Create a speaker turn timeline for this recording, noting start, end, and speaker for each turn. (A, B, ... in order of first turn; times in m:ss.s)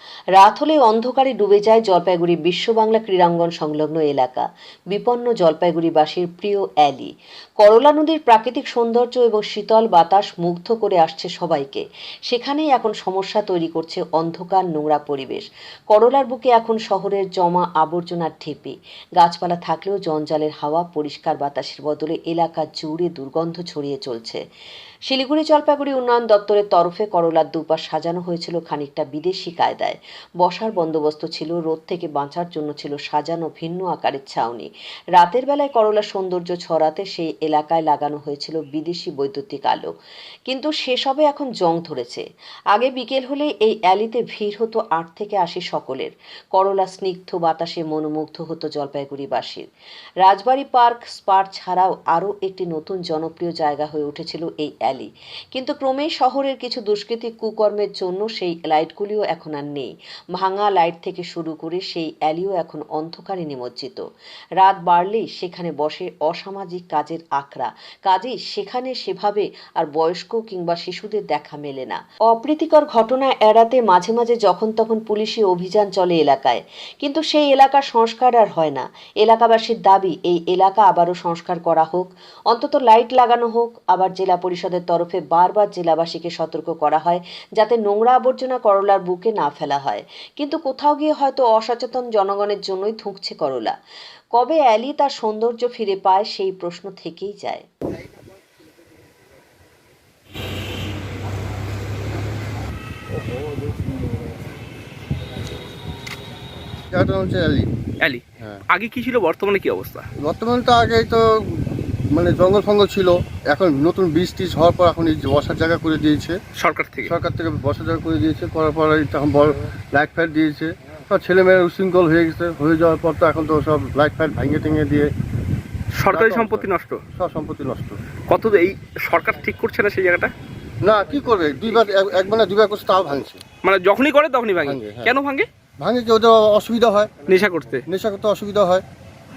0:00.4-0:24.4 A
0:25.1-0:39.9 A
0:40.5-0:49.7 A
0:50.2-1:04.0 A
1:04.6-1:33.8 A
1:34.3-1:37.6 A
1:46.9-1:47.7 B
1:48.0-1:50.0 C
1:50.2-1:56.4 B
1:56.6-1:57.1 C
1:57.0-2:05.1 B
2:06.0-2:07.0 C
2:06.1-2:08.0 B
2:08.3-2:10.3 C
2:10.8-2:13.4 B
2:13.6-2:15.5 C
2:14.6-2:15.2 B
2:15.8-2:17.2 B
2:17.3-2:17.8 C
2:17.9-2:18.8 B